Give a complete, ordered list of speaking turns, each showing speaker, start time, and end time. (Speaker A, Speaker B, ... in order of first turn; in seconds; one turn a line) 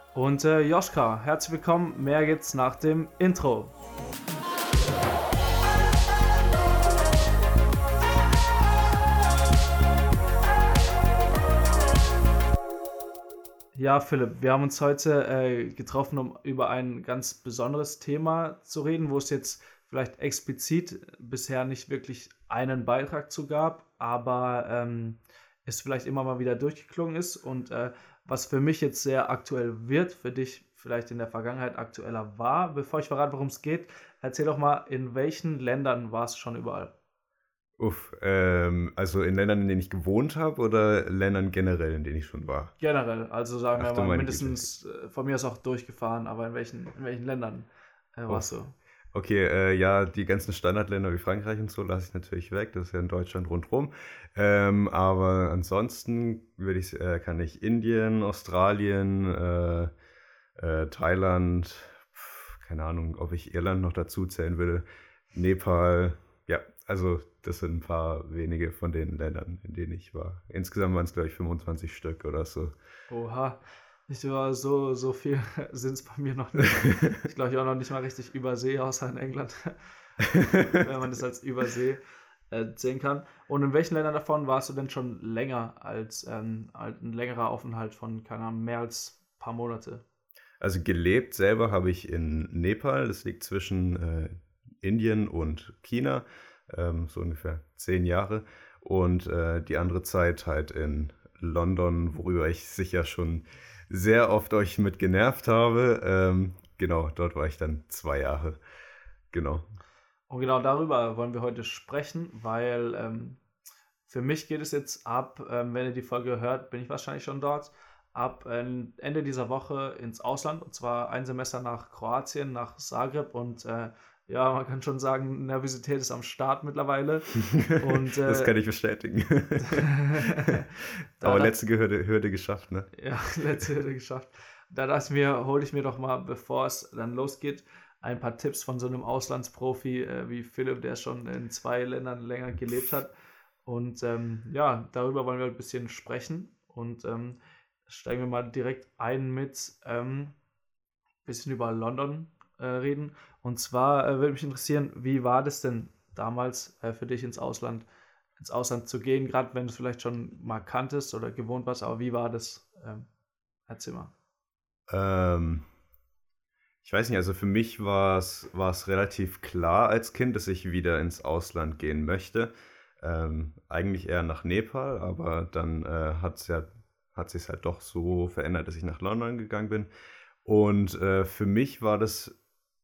Speaker A: 0.1-3.7
Speaker A: 13.7-36.9
Speaker B: 37.8-42.7
Speaker A: 42.8-48.7
Speaker B: 43.8-44.6
Speaker B: 49.1-59.9
Speaker B: 60.5-72.7
Speaker A: 73.1-79.8
Speaker B: 80.3-80.8
Speaker A: 80.4-90.0
Speaker B: 90.6-108.6
Speaker B: 109.3-109.6
Speaker A: 110.3-113.4
Speaker A: 114.0-128.5
Speaker B: 127.5-132.9
Speaker A: 129.6-130.6
Speaker A: 131.2-131.5
Speaker A: 132.9-143.1
Speaker A: 143.6-147.4
Speaker A: 147.9-150.3
Speaker A: 151.2-157.9
Speaker A: 158.4-163.1
Speaker A: 163.7-164.1
Speaker B: 164.9-165.6
Speaker B: 166.8-179.9
Speaker B: 180.4-182.3